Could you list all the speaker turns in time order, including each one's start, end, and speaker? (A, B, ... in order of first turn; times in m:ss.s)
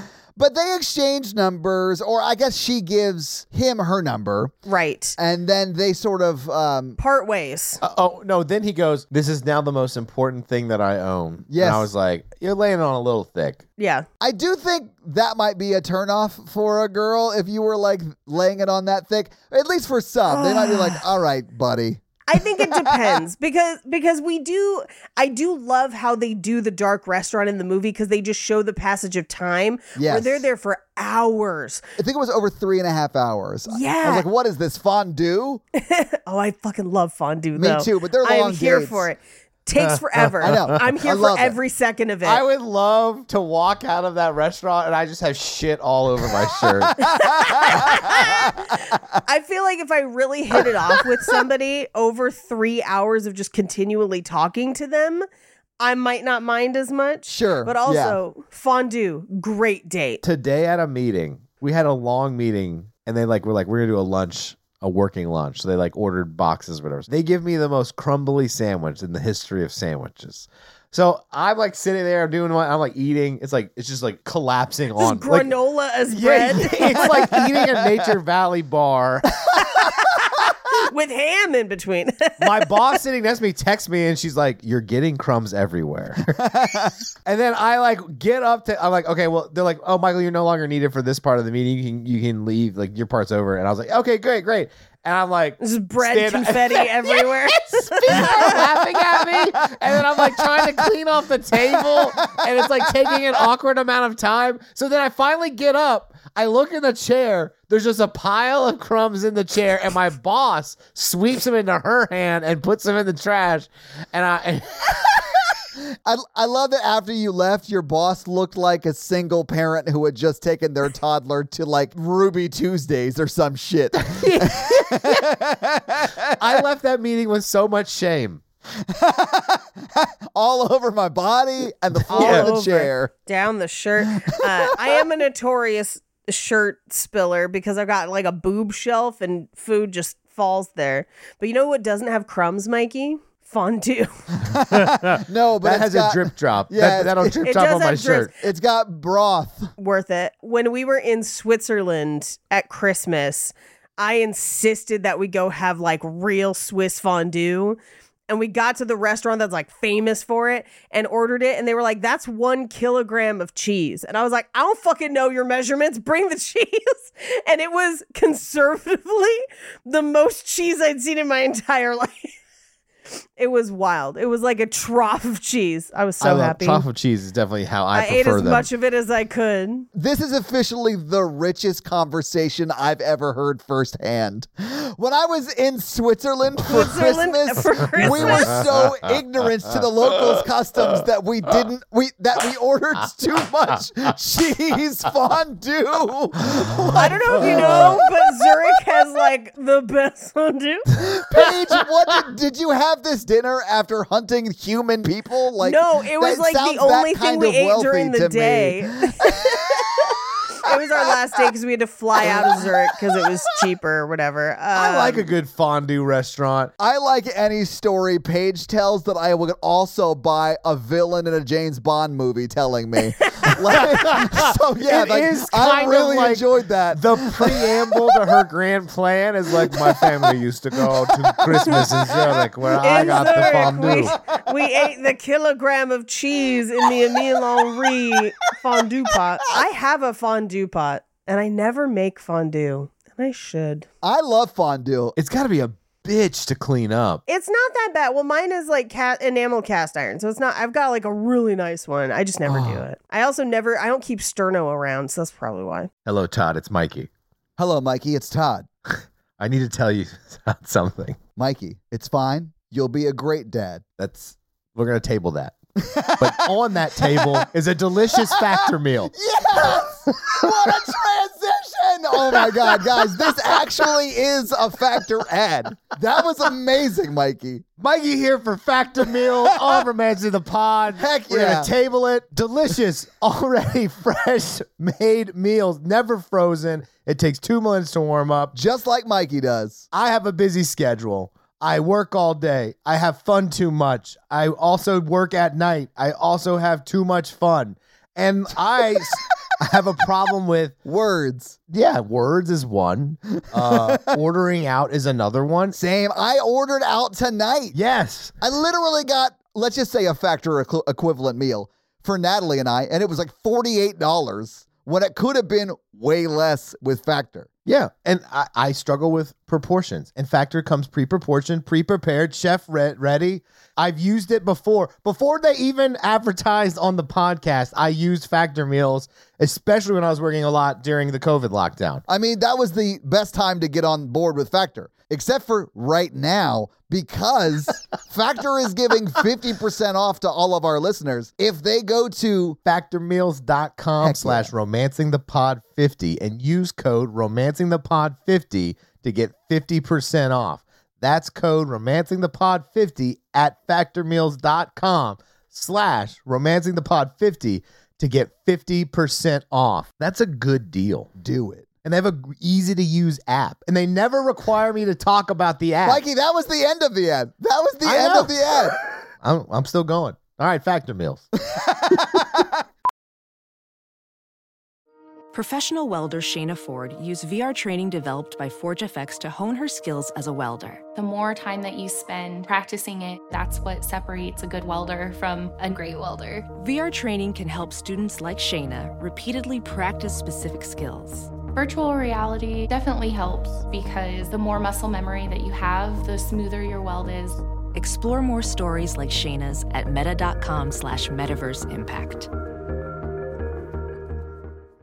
0:00.4-0:04.5 A
0:04.6-0:05.2 B
0:05.2-0:07.0 A
0:07.0-0:07.8 B
0:07.8-0:13.6 C
0:11.5-0:11.9 A
0:13.8-0:14.0 B
0:14.2-0:23.2 A
0:20.3-0:21.0 B
0:22.3-0:31.8 B
0:30.0-0:30.4 A
0:32.0-0:35.6 A
0:33.7-0:34.2 B
0:35.8-0:42.4 B
0:37.6-0:39.1 A
0:39.8-0:40.7 C
0:40.4-0:41.6 A
0:42.2-0:47.0 C
0:47.0-0:55.2 B
0:47.1-0:49.0 A
0:55.8-1:00.2 B
0:57.3-0:58.2 A
1:00.2-1:15.5 C
1:15.0-1:17.2 B
1:16.1-1:19.5 C
1:19.8-1:22.7 B
1:22.4-1:26.4 C
1:26.3-1:26.9 A
1:27.2-1:55.2 C
1:35.6-1:38.6 B
1:39.8-1:40.9 A
1:41.7-1:43.2 A
1:56.0-2:06.6 A
2:04.1-2:04.9 C
2:06.4-2:08.4 C
2:08.8-2:13.1 A
2:12.1-2:12.5 C
2:12.1-2:24.1 B
2:14.3-2:14.7 A
2:24.4-2:27.4 A
2:24.7-2:28.3 C
2:27.4-2:28.3 B
2:28.4-2:29.7 A
2:29.8-2:52.3 B
2:53.4-2:56.8 B
2:56.2-2:58.7 C
2:57.9-2:59.9 B
2:59.9-3:18.0 A
3:06.6-3:08.6 B
3:08.1-3:08.4 C
3:16.9-3:20.8 B
3:17.5-3:17.8 C
3:20.9-3:29.8 A
3:25.6-3:35.2 B
3:32.2-3:32.6 A
3:34.7-3:36.7 C
3:36.8-3:48.0 A
3:43.7-3:54.2 C
3:52.8-4:03.8 B
4:04.0-4:05.1 A
4:05.2-4:07.2 C
4:07.3-4:15.9 B
4:12.4-4:12.8 C
4:16.0-4:17.1 C
4:17.6-4:18.7 A
4:19.4-4:21.2 C
4:21.4-4:23.8 A
4:24.0-4:25.6 C
4:25.8-4:27.4 A
4:26.1-4:29.1 C
4:28.2-4:28.6 A
4:29.1-4:37.7 A
4:29.8-4:30.3 C
4:37.8-4:48.5 C
4:41.0-4:41.7 A
4:48.5-4:49.8 A
4:49.9-5:00.8 C
5:00.8-5:01.6 A
5:01.7-5:05.8 C
5:03.5-5:04.1 A
5:05.7-5:07.8 A
5:07.7-5:08.3 C
5:08.4-5:17.5 A
5:17.6-5:32.0 C
5:32.1-5:42.6 A
5:42.6-6:01.1 C
5:44.0-5:44.5 A
6:01.2-6:01.7 A
6:01.8-6:06.0 C
6:05.8-6:08.8 A
6:07.8-6:11.3 C
6:11.5-6:12.5 A
6:15.3-6:20.8 D
6:20.9-6:26.5 E
6:26.5-6:31.4 D
6:31.5-6:37.4 E
6:37.7-6:42.3 D